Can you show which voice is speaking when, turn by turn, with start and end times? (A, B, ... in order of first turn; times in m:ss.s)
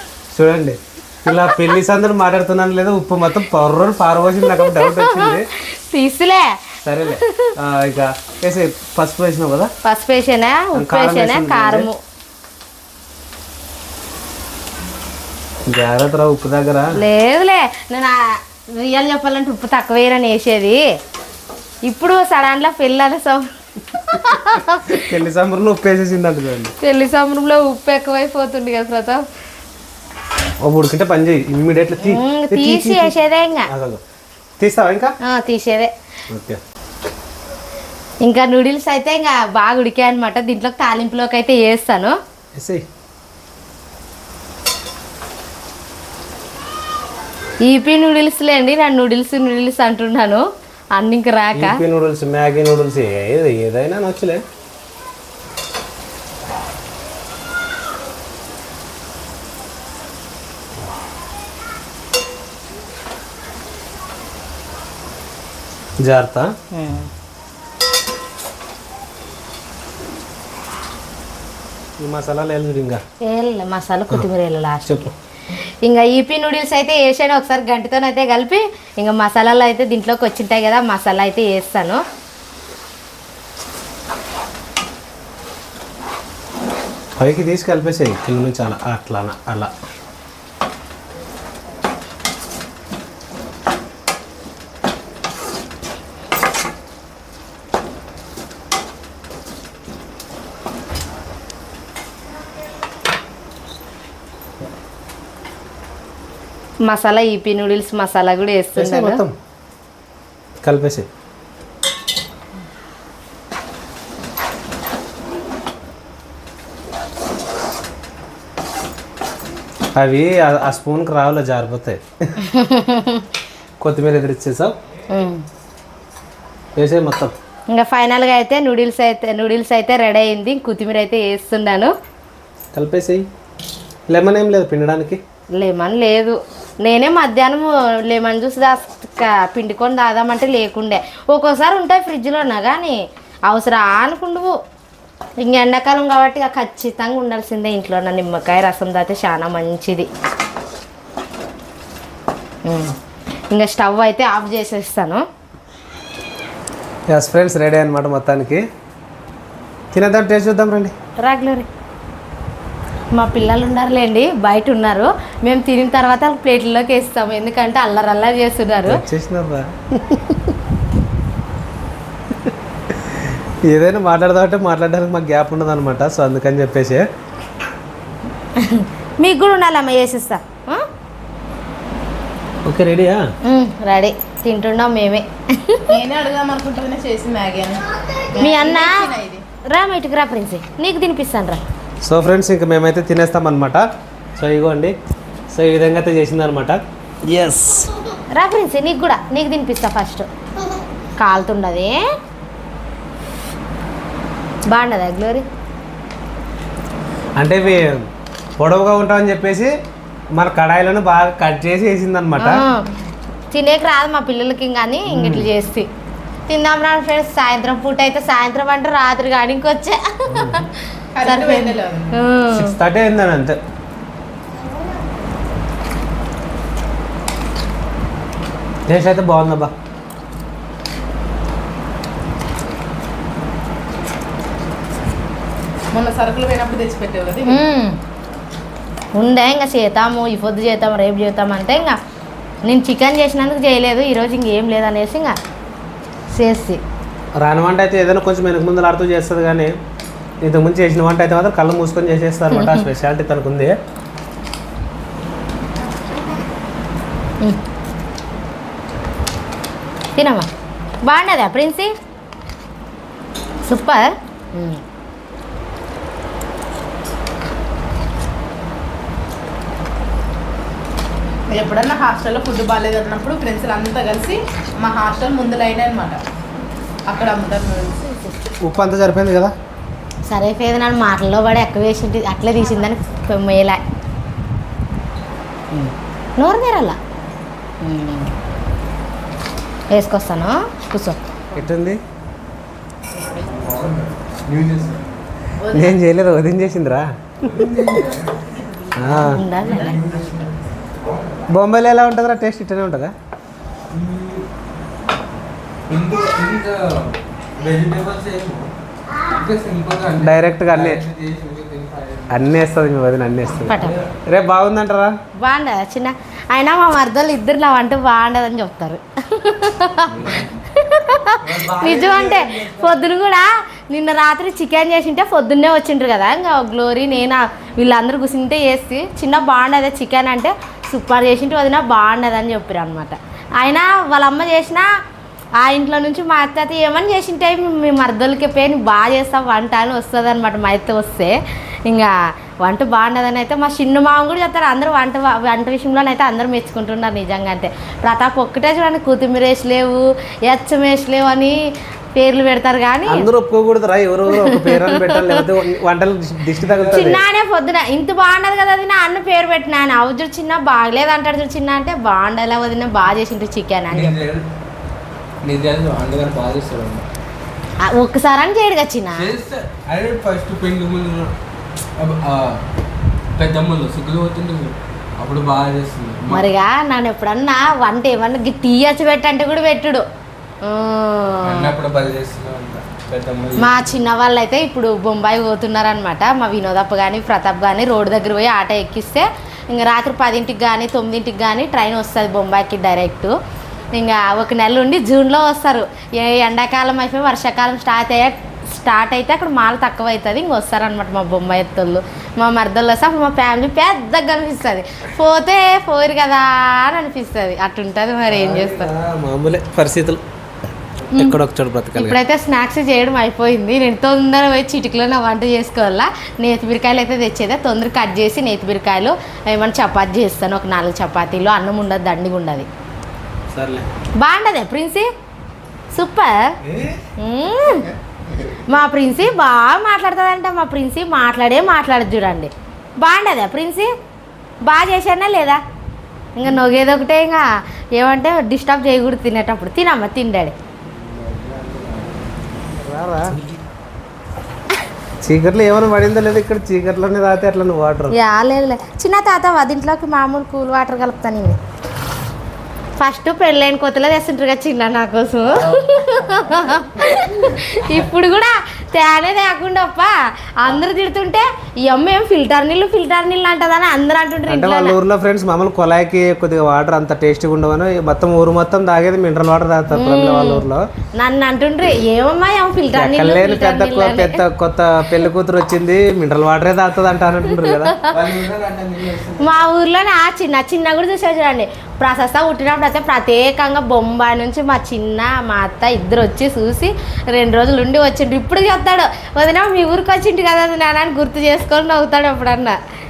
0:00.3-0:05.5 A
0:01.3-0:01.6 B
0:04.4-0:07.6 B
0:06.8-0:09.7 A
0:09.8-0:12.0 B
0:10.7-0:11.9 A
0:15.7-0:17.0 A
0:16.9-0:20.8 B
0:21.9-0:25.1 B
0:24.9-0:26.8 A
0:26.8-0:29.2 B
0:30.6-0:33.1 A
0:32.0-0:33.7 B
0:33.7-0:34.0 A
0:34.6-0:35.2 A
0:35.2-0:35.9 B
0:36.3-0:36.6 A
0:38.2-0:42.2 B
0:42.6-0:42.8 A
0:47.6-0:51.8 B
0:51.5-0:54.4 A
1:06.0-1:06.6 A
1:06.7-1:07.1 B
1:12.0-1:13.0 A
1:13.2-1:15.1 B
1:14.9-1:15.1 A
1:15.8-1:22.0 B
1:27.2-1:29.7 A
1:46.8-1:49.2 B
1:48.8-1:49.3 A
1:50.6-1:51.1 A
2:00.0-2:02.4 A
2:02.4-2:03.3 B
2:03.8-2:04.8 A
2:05.1-2:05.4 B
2:06.8-2:07.3 A
2:07.7-2:11.9 B
2:12.7-2:13.3 A
2:14.1-2:15.2 A
2:15.6-2:24.6 B
2:25.4-2:30.1 B
2:32.6-2:33.0 B
2:33.5-2:35.2 B
2:37.1-2:38.7 A
2:39.9-2:40.9 A
2:41.2-2:41.7 B
2:43.1-2:49.0 B
2:48.9-2:50.5 A
2:52.4-2:57.1 A
2:58.6-3:00.9 B
3:02.6-3:03.3 A
3:03.4-3:06.0 B
3:05.9-3:09.4 C
3:08.4-3:09.1 B
3:09.7-3:11.6 B
3:12.0-3:13.9 A
3:14.4-3:15.0 A
3:15.5-3:17.9 A
3:18.3-3:20.3 B
3:21.2-3:22.0 B
3:24.7-3:25.5 B
3:27.4-3:28.1 A
3:28.6-3:29.8 A
3:30.3-3:32.6 A
3:32.4-3:32.9 B
3:33.5-3:35.9 B
3:35.1-3:35.5 A
3:36.5-3:42.8 B
3:40.3-3:40.6 A
3:41.2-3:42.1 C
3:42.5-3:43.6 A
3:48.9-3:49.7 A
3:55.9-3:57.6 C
3:57.4-3:58.0 B
3:59.2-4:02.0 B
4:02.6-4:05.4 B
4:06.3-4:06.8 B
4:07.4-4:09.8 A
4:10.4-4:13.8 A
4:12.5-4:12.9 B
4:20.2-4:20.5 B
4:21.0-4:21.9 B
4:23.6-4:24.8 B
4:31.5-4:36.2 C
4:37.1-4:38.0 C
4:38.6-4:39.6 A
4:40.3-4:43.8 B
4:45.8-4:47.0 B
4:47.8-4:48.3 B
4:49.9-4:51.2 B
4:51.5-4:52.0 A
4:53.3-4:55.2 D
4:55.6-4:56.0 C
4:55.7-4:58.0 A
4:57.5-4:58.5 D
4:59.0-4:59.4 A
4:59.0-5:00.0 B
4:59.1-5:01.5 D
4:59.6-5:00.0 C
5:01.5-5:03.2 A
5:03.9-5:04.5 D
5:05.9-5:12.4 D
5:10.2-5:11.0 A
5:12.3-5:15.2 A
5:13.6-5:14.0 B
5:13.7-5:14.1 D
5:15.4-5:34.9 B
5:20.1-5:20.6 D
5:21.4-5:23.0 D
5:35.6-5:51.6 B
5:52.2-5:53.3 B
5:53.1-5:57.2 A
5:54.3-5:55.5 B
5:56.6-5:57.1 D
5:56.9-6:04.2 B
6:03.9-6:04.5 D
6:05.4-6:07.1 D
6:07.8-6:09.3 B
6:09.2-6:11.3 D
6:12.0-6:12.6 D
6:13.4-6:16.5 D
6:16.3-6:20.0 B
6:20.6-6:21.8 B
6:21.4-6:24.0 D
6:23.6-6:33.4 B
6:34.0-6:48.9 B
6:48.3-6:50.2 A
6:51.1-6:52.2 A
6:52.0-7:02.7 B
7:03.5-7:03.9 A
7:04.2-7:05.1 B
7:05.9-7:06.6 B
7:06.6-7:07.0 A
7:07.2-7:07.9 B
7:08.7-7:13.9 B
7:14.6-7:15.6 B
7:16.4-7:20.6 B
7:20.9-7:22.7 D
7:22.8-7:23.4 A
7:25.2-7:28.2 A
7:28.1-7:31.6 B
7:33.0-7:45.0 B
7:44.5-7:50.9 A
7:49.9-7:54.4 B
7:52.9-7:58.0 A
7:57.5-7:58.3 B
7:58.1-7:59.5 D
7:59.4-8:12.8 B